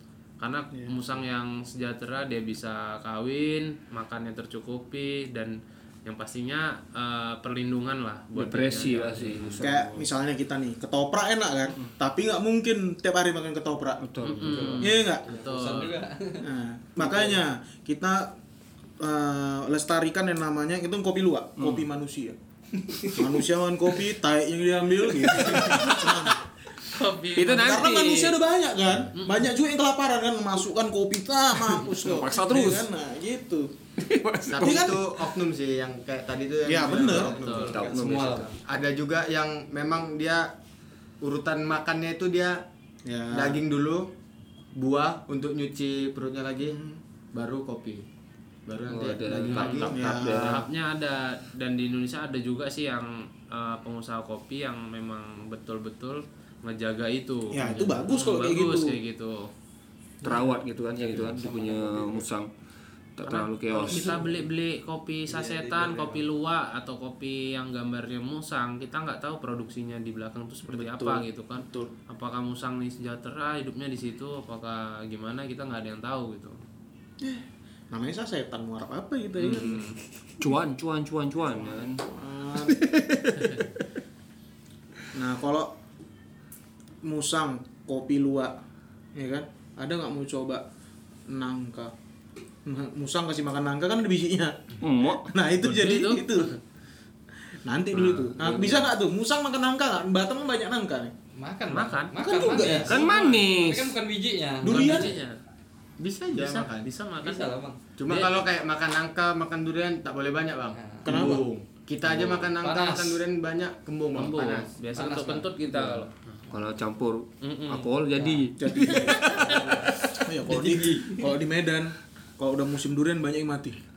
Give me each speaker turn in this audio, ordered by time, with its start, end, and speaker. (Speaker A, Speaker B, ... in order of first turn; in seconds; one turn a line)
Speaker A: 0.4-9.6
Speaker B: 8.3-10.1
Speaker C: 9.6-14.0
Speaker B: 14.0-14.8
Speaker A: 14.2-16.0
Speaker D: 14.4-16.5
Speaker C: 14.8-15.2
Speaker C: 16.4-18.3
Speaker D: 17.0-17.4
Speaker C: 19.0-22.4
Speaker B: 21.6-21.9
Speaker D: 22.8-23.3
Speaker C: 23.1-26.4
Speaker A: 25.4-26.3
Speaker A: 26.8-28.3
Speaker B: 27.4-28.3
Speaker C: 27.6-33.7
Speaker A: 29.1-29.5
Speaker B: 31.8-32.9
Speaker B: 34.0-35.2
Speaker E: 34.5-37.8
Speaker C: 34.6-35.0
Speaker C: 36.6-37.3
Speaker D: 36.9-38.6
Speaker A: 37.0-37.7
Speaker B: 37.7-38.5
Speaker E: 38.7-40.5
Speaker E: 41.2-42.6
Speaker C: 43.0-43.6
Speaker E: 43.3-44.1
Speaker E: 44.8-46.8
Speaker C: 46.7-47.0
Speaker E: 47.3-48.0
Speaker E: 48.7-50.2
Speaker B: 48.9-50.6
Speaker A: 49.5-57.5
Speaker C: 49.9-50.6
Speaker C: 57.5-59.0
Speaker E: 57.6-58.0
Speaker A: 58.1-59.5
Speaker C: 60.2-60.5
Speaker B: 60.2-62.5
Speaker C: 61.1-62.2
Speaker B: 63.2-64.2
Speaker A: 63.2-76.6
Speaker D: 65.3-66.2
Speaker C: 70.7-71.9
Speaker C: 77.2-79.9
Speaker A: 79.4-80.0
Speaker B: 80.4-82.0
Speaker C: 81.8-82.8
Speaker B: 82.7-83.7
Speaker A: 83.4-83.6
Speaker C: 85.1-85.7
Speaker C: 87.0-88.6
Speaker C: 89.1-90.6
Speaker C: 91.3-91.9
Speaker C: 92.7-96.5
Speaker B: 94.8-95.3
Speaker A: 95.6-96.6
Speaker C: 97.6-101.1
Speaker B: 97.9-98.9
Speaker D: 101.3-105.1
Speaker A: 101.7-102.1
Speaker C: 102.2-103.0
Speaker B: 102.8-103.9
Speaker C: 104.6-105.1
Speaker A: 104.6-105.4
Speaker E: 106.0-106.9
Speaker A: 106.3-107.5
Speaker D: 107.2-107.8
Speaker E: 108.0-114.7
Speaker A: 108.1-108.4
Speaker D: 110.7-111.1
Speaker C: 111.0-111.5
Speaker D: 112.2-113.2
Speaker A: 114.1-116.1
Speaker D: 114.9-115.5
Speaker B: 115.9-120.0
Speaker A: 117.4-117.9
Speaker D: 118.1-121.3
Speaker C: 118.6-119.5
Speaker C: 120.2-123.8